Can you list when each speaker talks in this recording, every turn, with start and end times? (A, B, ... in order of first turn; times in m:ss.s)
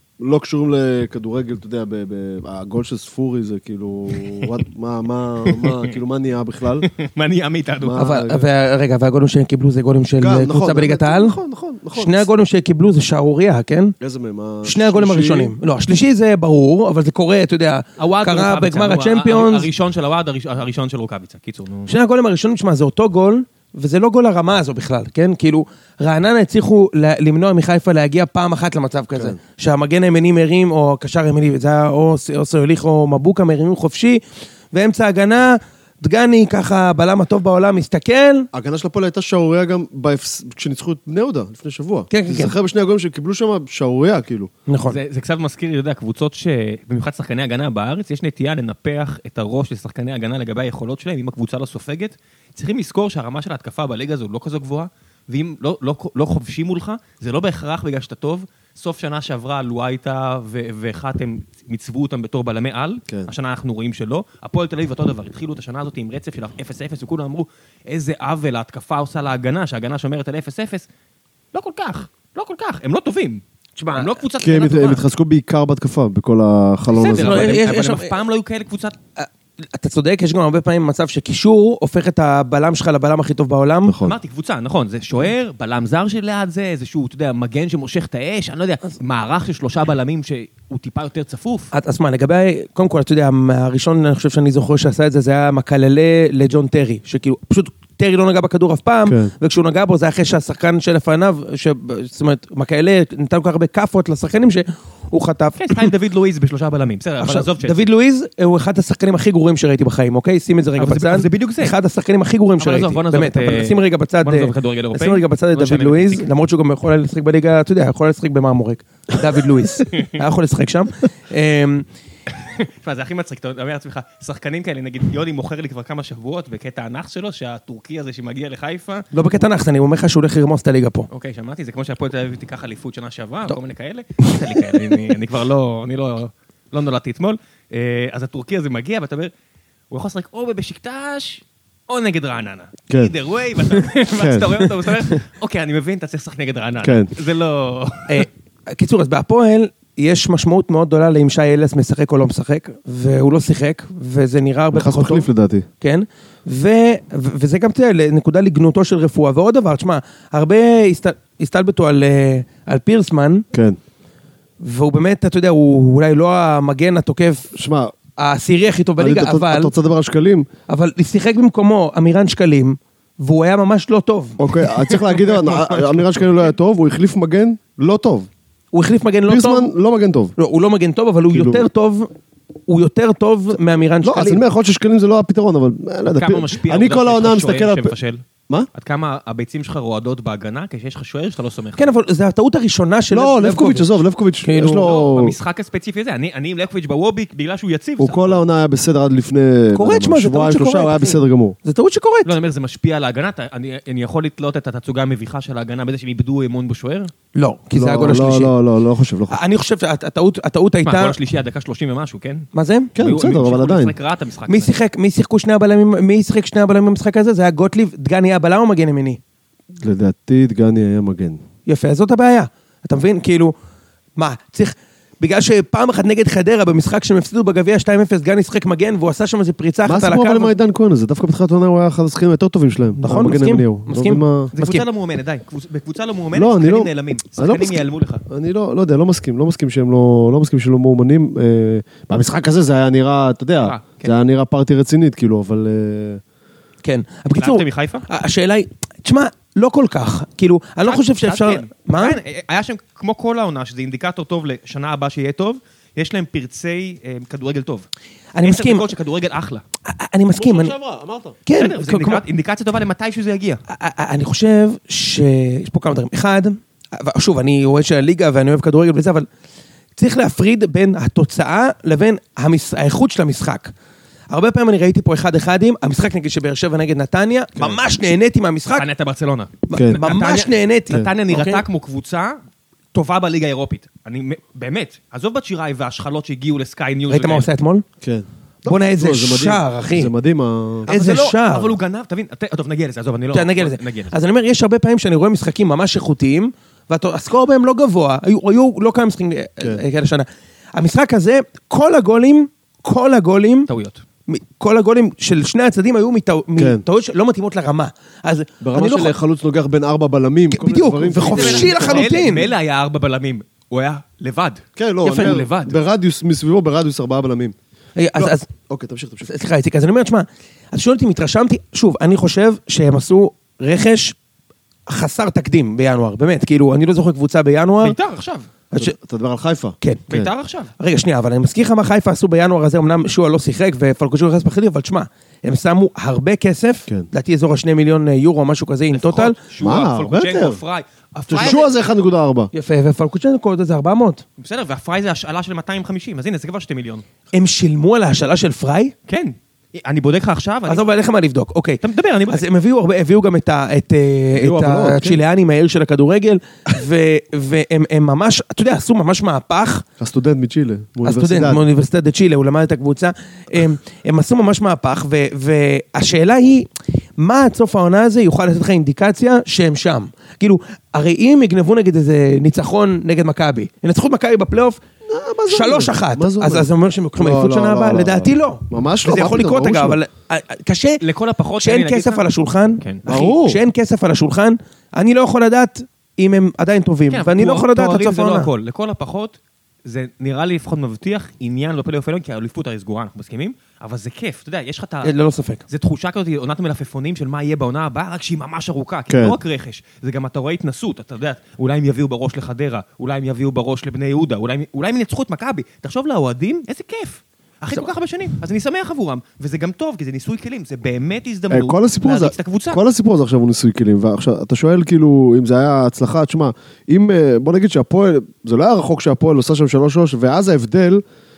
0:00.2-0:06.9 A
0:05.4-0:06.0 B
0:06.8-0:08.0 B
0:07.8-0:08.4 A
0:08.0-0:11.4 C
0:10.2-0:12.3 A
0:12.0-0:13.9 C
0:14.0-0:15.5 A
0:14.6-0:19.7 C
0:18.0-0:21.9 B
0:21.9-0:38.5 C
0:38.5-0:44.5 A
0:42.1-0:42.5 C
0:44.7-0:45.0 C
0:44.9-1:10.9 B
1:11.5-1:13.4 B
1:13.8-1:14.2 C
1:13.9-1:15.0 B
1:14.4-1:17.6 A
1:16.9-1:19.0 B
1:17.0-1:18.1 C
1:19.2-1:23.9 C
1:23.8-1:24.2 A
1:24.0-1:31.7 B
1:31.7-1:45.9 C
1:39.0-1:39.3 A
1:45.6-1:47.8 B
1:47.2-2:01.8 C
1:50.8-1:51.7 B
1:52.6-1:56.3 B
1:59.8-2:00.2 B
2:02.4-2:09.1 B
2:09.1-2:11.1 C
2:11.1-2:19.3 B
2:19.9-2:28.2 B
2:24.1-2:24.5 A
2:26.8-2:27.1 A
2:28.1-2:35.3 C
2:34.7-2:35.7 A
2:35.8-2:43.4 C
2:43.5-2:43.8 A
2:44.6-2:47.5 C
2:47.5-2:47.9 A
2:48.2-2:49.7 C
2:49.0-2:50.5 A
2:50.7-2:54.9 C
2:54.4-2:58.3 A
2:55.3-2:55.6 B
2:58.7-2:59.7 C
2:59.3-3:00.3 A
3:00.4-3:02.1 C
3:01.3-3:01.6 A
3:02.7-3:04.4 C
3:04.0-3:07.9 A
3:06.1-3:08.2 B
3:08.7-3:11.9 B
3:11.8-3:14.9 C
3:13.1-3:15.4 A
3:14.7-3:18.4 B
3:18.0-3:21.6 A
3:19.7-3:22.3 C
3:22.2-3:27.1 B
3:27.3-3:28.5 C
3:27.7-3:29.4 A
3:29.3-3:31.2 C
3:30.8-3:34.8 B
3:32.5-3:32.9 C
3:33.0-3:33.9 A
3:34.5-3:39.2 C
3:39.8-3:41.4 A
3:41.6-3:43.5 C
3:44.2-3:50.5 C
3:49.8-3:54.5 A
3:53.0-3:54.8 C
3:54.5-3:58.2 B
3:56.3-4:06.2 A
4:03.6-4:04.1 B
4:06.8-4:12.2 C
4:07.3-4:08.0 B
4:10.8-4:17.9 B
4:18.3-4:18.8 C
4:18.4-4:19.6 B
4:19.8-4:20.7 C
4:20.3-4:21.4 A
4:21.4-4:22.2 C
4:21.5-4:23.6 B
4:23.7-4:29.3 C
4:30.0-4:33.7 C
4:34.3-4:38.8 C
4:38.8-4:42.4 B
4:39.7-4:41.6 C
4:39.7-4:40.0 A
4:42.9-4:47.5 B
4:47.1-4:47.8 C
4:48.0-4:50.9 A
4:48.6-4:50.1 C
4:50.9-4:54.1 B
4:50.9-4:51.7 C
4:53.3-5:03.7 C
5:03.7-5:04.0 B
5:04.3-5:09.1 C
5:06.6-5:06.8 A
5:08.6-5:12.2 A
5:10.5-5:12.5 C
5:11.2-5:15.8 B
5:14.8-5:17.5 A
5:15.0-5:15.4 C
5:18.0-5:18.5 C
5:18.2-5:19.3 A
5:19.2-5:24.2 C
5:24.9-5:28.0 C
5:27.8-5:28.5 B
5:28.7-5:30.3 A
5:29.8-5:30.0 C
5:30.1-5:30.7 B
5:30.8-5:39.4 C
5:38.9-5:41.7 B
5:39.6-5:40.6 A
5:41.3-5:42.5 A
5:42.5-5:44.2 C
5:44.4-5:47.0 B
5:47.3-5:48.9 C
5:49.1-5:50.9 B
5:50.7-5:59.8 C
5:51.8-5:52.4 B
5:54.4-5:55.2 A
6:00.0-6:01.6 A
6:01.0-6:14.8 C
6:15.0-6:20.0 A
6:15.5-6:21.0 C
6:21.0-6:22.2 B
6:21.6-6:28.5 C
6:23.0-6:23.6 A
6:27.1-6:35.1 B
6:35.0-6:35.6 C
6:35.7-6:52.8 B
6:39.1-6:39.4 A
6:51.5-7:01.0 A